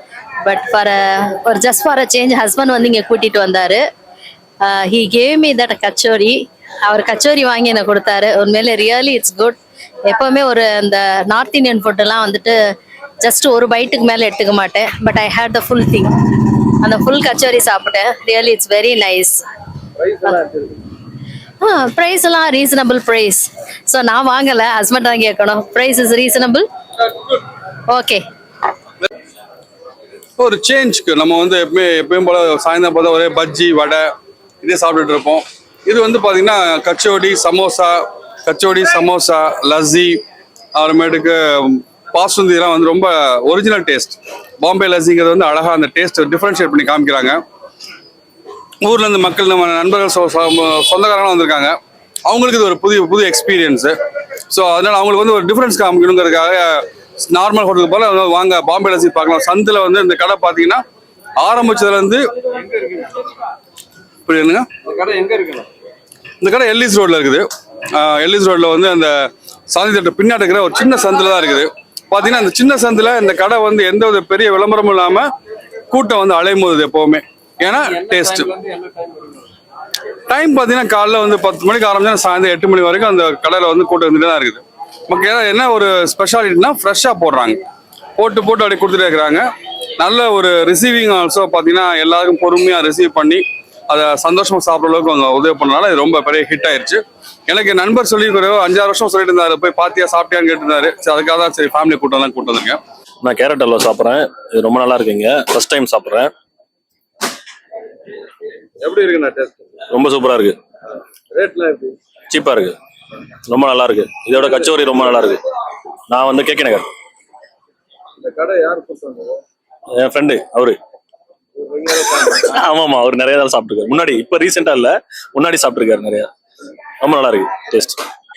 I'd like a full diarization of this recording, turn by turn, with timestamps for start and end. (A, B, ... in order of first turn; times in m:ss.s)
0:00.4-0:03.8 A
0:04.6-0:12.5 A
0:13.2-0:19.4 A
0:20.0-0:20.7 A
0:21.6-0:26.6 A
0:27.9-0:28.2 A
0:30.4-0:34.1 B
0:34.6-0:40.2 B
0:40.8-0:47.4 B
0:48.8-0:51.8 B
0:52.3-0:53.9 B
0:54.5-1:00.8 B
1:01.4-1:03.1 B
1:04.2-1:05.6 B
1:06.4-1:09.1 B
1:09.7-1:15.3 B
1:15.9-1:18.6 B
1:20.3-1:27.6 B
1:28.2-1:29.4 B
1:30.0-1:42.8 B
1:43.2-1:46.3 C
1:48.8-1:49.4 B
1:49.9-1:50.6 C
1:52.3-1:52.8 C
1:53.5-1:55.4 C
1:56.1-1:56.8 C
1:58.4-1:59.0 B
2:00.0-2:00.8 C
2:02.1-2:06.3 C
2:07.0-2:08.0 C